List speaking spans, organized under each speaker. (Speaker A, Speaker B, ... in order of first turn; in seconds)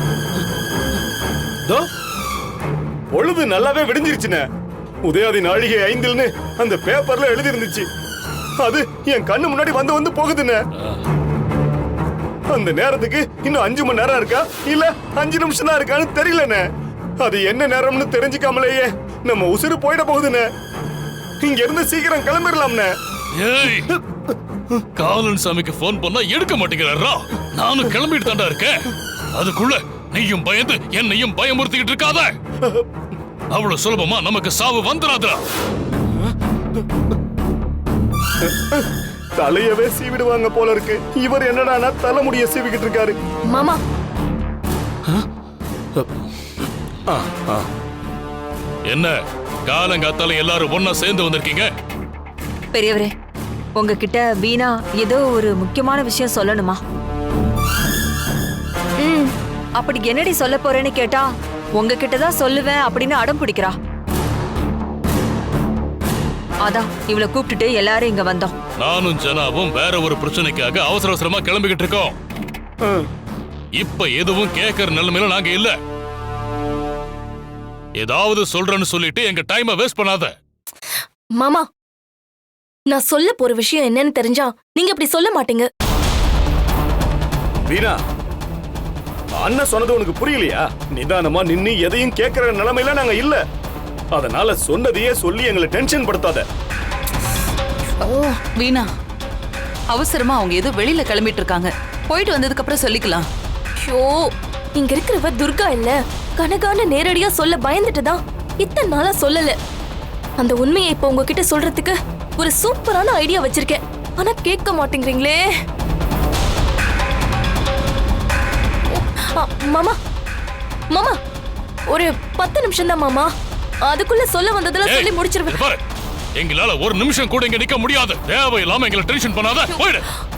Speaker A: 3.1-4.5, 5.0-7.9, 8.6-10.6, 12.5-16.6, 17.2-20.5, 21.4-22.9, 38.5-43.2, 47.1-47.7, 72.8-73.1, 87.7-88.0, 89.3-93.4, 94.1-96.5
Speaker B: 23.4-23.9, 25.0-32.3, 33.5-35.4, 48.9-49.1, 49.7-51.7, 68.8-72.2, 73.8-75.8, 78.0-80.3, 124.8-125.8, 126.4-130.1
Speaker C: 43.5-43.8, 81.4-81.7, 82.9-85.7, 103.8-109.6, 110.4-115.4, 118.9-120.0, 120.9-121.2, 121.9-123.3, 123.8-125.6
Speaker D: 52.7-53.1, 53.8-56.8, 59.0-61.3, 61.8-63.8, 66.7-68.5
Speaker E: 98.0-98.9, 99.9-103.3